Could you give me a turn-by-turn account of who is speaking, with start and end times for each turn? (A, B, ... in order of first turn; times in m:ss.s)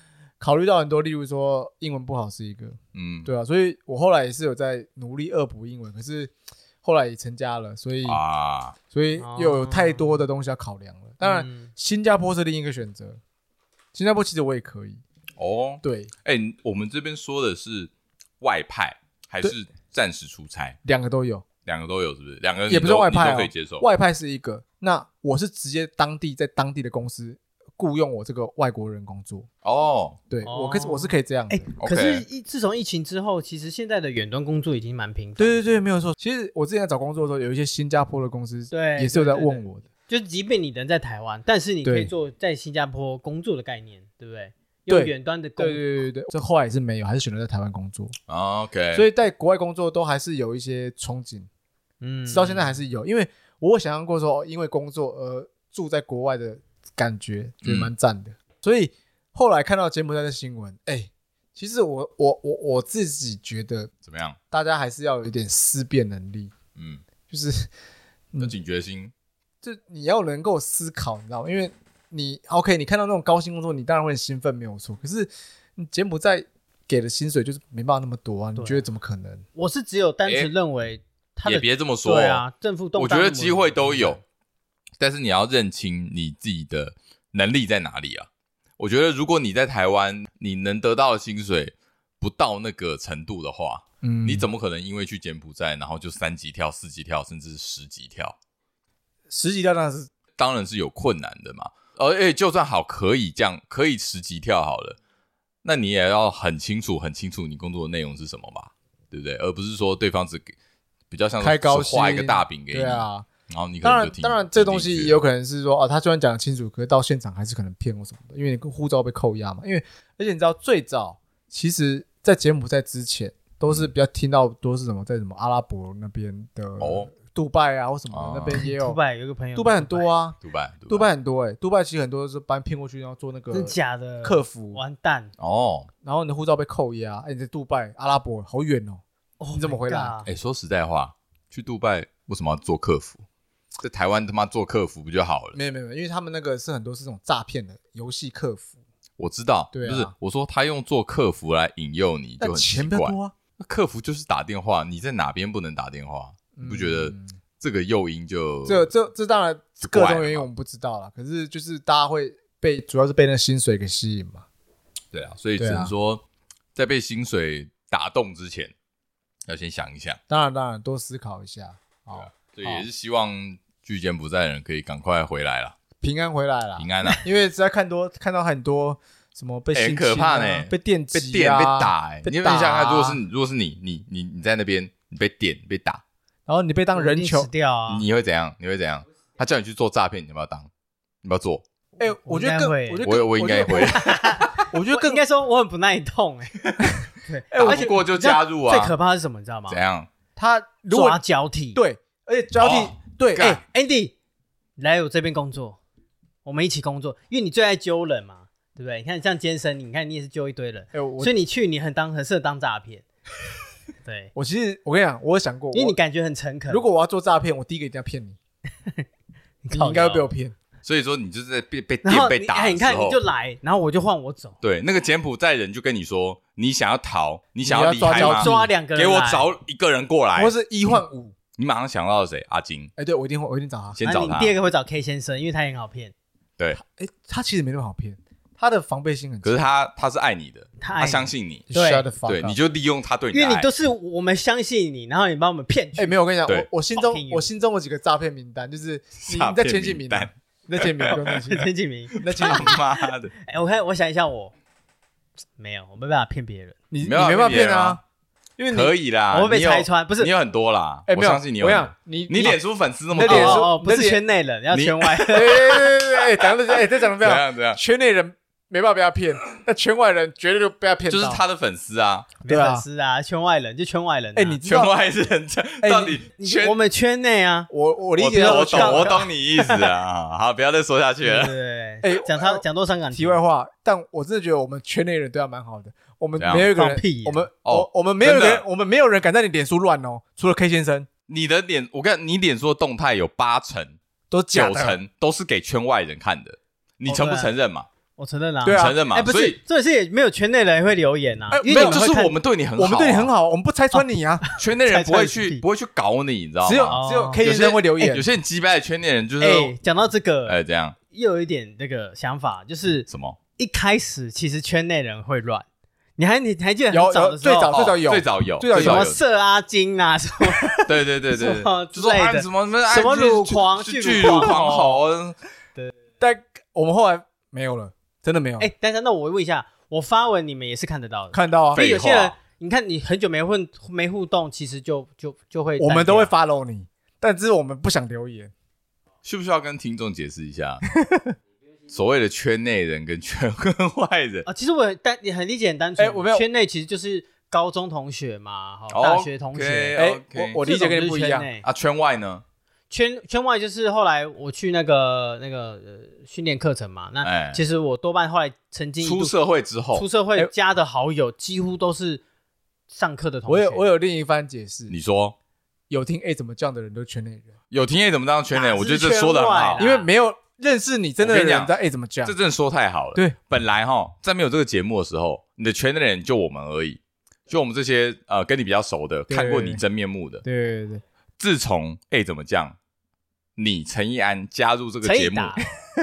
0:00.4-0:08.2 A
0:02.9-0:03.3 B
0:08.0-0:08.8 B
0:08.9-0:13.2 A
0:09.2-0:10.2 C
0:11.2-0:11.7 C
0:13.9-0:15.0 A
0:15.4-0:20.8 B
0:15.8-0:16.1 A
0:20.8-0:21.4 A
0:21.6-0:23.8 B
0:22.7-0:29.5 A
0:29.6-0:30.2 B
0:30.3-0:31.7 A
0:30.4-0:35.6 C
0:31.8-0:32.2 B
0:35.4-0:39.8 A
0:38.7-0:46.0 C
0:41.8-0:42.1 A
0:44.9-0:48.1 A
0:48.3-0:49.0 B
0:48.9-0:51.5 A
0:52.0-0:52.7 C
0:52.3-1:03.9 A
0:57.6-0:57.9 B
1:04.0-1:04.4 B
1:04.5-1:06.5 A
1:06.8-1:07.0 B
1:07.3-1:07.7 A
1:08.4-1:09.1 B
1:09.6-1:19.4 A
1:18.6-1:18.8 C
1:19.5-1:24.2 C
1:21.4-1:22.4 B
1:23.0-1:24.2 B
1:25.0-1:38.3 B
1:34.0-1:34.5 A
1:39.3-1:40.1 A
1:40.4-1:45.0 B
1:45.6-1:50.5 B
1:51.1-1:55.2 B
1:51.4-1:53.3 A
1:53.8-2:09.0 A
2:06.8-2:07.1 B
2:08.1-2:08.6 B
2:08.6-2:10.1 C
2:09.6-2:10.4 A
2:10.4-2:11.1 B
2:10.9-2:14.8 A
2:13.5-2:15.3 C
2:15.4-2:15.9 B
2:16.0-2:19.0 A
2:19.4-2:20.3 C
2:19.5-2:20.2 A
2:20.2-2:23.2 B
2:23.8-2:25.6 B
2:25.5-2:28.7 A
2:29.2-2:38.9 B
2:29.7-2:30.1 A
2:32.4-2:33.3 A
2:36.5-2:37.4 A
2:38.6-2:44.4 A
2:39.8-2:40.4 B
2:45.1-2:46.2 B
2:45.6-2:45.9 A
2:46.7-2:48.7 B
2:49.5-2:50.2 B
2:50.3-2:52.8 A
2:52.1-2:55.7 B
2:56.0-3:03.2 A
2:56.8-2:57.2 B
2:59.7-3:06.0 B
3:06.5-3:07.5 A
3:06.9-3:08.0 C
3:07.9-3:10.7 B
3:11.2-3:11.6 B
3:12.0-3:15.2 A
3:12.0-3:13.0 C
3:13.0-3:14.5 B
3:13.7-3:16.6 C
3:16.6-3:16.9 B
3:16.8-3:18.0 A
3:17.1-3:19.8 C
3:17.6-3:18.9 B
3:19.7-3:20.1 B
3:20.4-3:21.2 A
3:20.9-3:21.8 C
3:21.7-3:23.6 A
3:22.6-3:23.6 B
3:23.6-3:24.1 C
3:24.8-3:25.8 C
3:26.4-3:33.0 C
3:30.9-3:31.3 A
3:34.0-3:34.3 C
3:34.3-3:36.0 A
3:35.7-3:36.8 C
3:36.7-3:38.4 A
3:39.6-3:40.3 C
3:39.7-3:40.6 A
3:40.8-3:43.2 B
3:42.0-3:44.6 C
3:44.6-3:50.5 B
3:47.6-3:48.7 A
3:48.1-3:49.5 C
3:50.4-3:51.3 A
3:51.6-3:52.9 B
3:53.0-3:54.0 A
3:53.9-3:54.6 B
3:54.0-3:56.1 C
3:56.7-3:59.6 A
3:59.4-4:01.7 B
4:00.8-4:02.1 C
4:01.7-4:02.6 A
4:02.2-4:03.7 B
4:03.3-4:06.2 C
4:06.0-4:12.8 A
4:06.9-4:07.5 C
4:09.2-4:11.5 B
4:11.3-4:12.8 C
4:12.2-4:13.3 B
4:13.3-4:14.5 C
4:15.6-4:16.8 C
4:16.9-4:18.0 A
4:17.0-4:18.0 B
4:18.7-4:23.7 B
4:19.3-4:20.3 C
4:21.1-4:22.6 A
4:23.1-4:24.2 A
4:23.2-4:25.7 C
4:24.7-4:25.9 B
4:25.3-4:31.4 A
4:27.0-4:27.8 B
4:31.1-4:32.3 B
4:32.4-4:34.6 C
4:32.4-4:32.8 A
4:34.3-4:34.9 A
4:34.6-4:36.8 B
4:35.8-4:36.2 A
4:36.4-4:37.7 C
4:37.7-4:39.2 A
4:38.2-4:41.5 B
4:38.2-4:39.9 C
4:41.2-4:43.4 C
4:42.0-4:51.1 A
4:46.4-4:46.7 B
4:46.7-4:47.5 C
4:47.6-4:48.6 B
4:51.3-4:54.0 B
4:54.3-4:55.0 A
4:54.5-4:57.9 B
4:57.1-4:57.5 C
4:58.2-5:02.3 C
4:58.6-4:59.0 A
4:58.7-4:59.6 B
5:01.5-5:02.1 A
5:01.7-5:03.3 B
5:02.8-5:04.4 A
5:03.9-5:05.6 C
5:04.6-5:09.7 B
5:06.6-5:08.2 A
5:06.9-5:07.4 C
5:09.4-5:10.6 C
5:10.4-5:11.0 B
5:11.1-5:15.6 C
5:13.1-5:13.4 B
5:16.2-5:17.8 C
5:16.9-5:19.2 A
5:17.7-5:19.2 B
5:18.7-5:25.0 C
5:20.8-5:25.4 B
5:24.2-5:24.5 A
5:26.2-5:28.7 A
5:28.6-5:36.3 C
5:31.3-5:31.9 A
5:31.7-5:32.3 B
5:35.8-5:38.5 A
5:39.2-5:40.8 B
5:40.9-5:41.4 A
5:41.9-5:44.5 B
5:44.4-5:50.0 C
5:46.0-5:46.4 A
5:48.9-5:50.6 B
5:50.0-5:51.5 A
5:50.6-5:51.6 C
5:51.6-5:52.4 B
5:52.9-5:59.3 C
5:57.2-5:57.6 B
5:59.0-6:00.1 B
5:59.9-6:02.2 C
6:02.9-6:03.9 C
6:03.5-6:04.9 A
6:04.9-6:05.3 B
6:05.9-6:07.5 A
6:07.7-6:09.8 B
6:08.5-6:10.1 C
6:09.8-6:12.3 A
6:11.2-6:11.7 B
6:12.2-6:20.4 B
6:19.3-6:19.8 A
6:20.4-6:21.0 A
6:21.4-6:22.8 B
6:23.6-6:25.7 B
6:25.0-6:25.7 C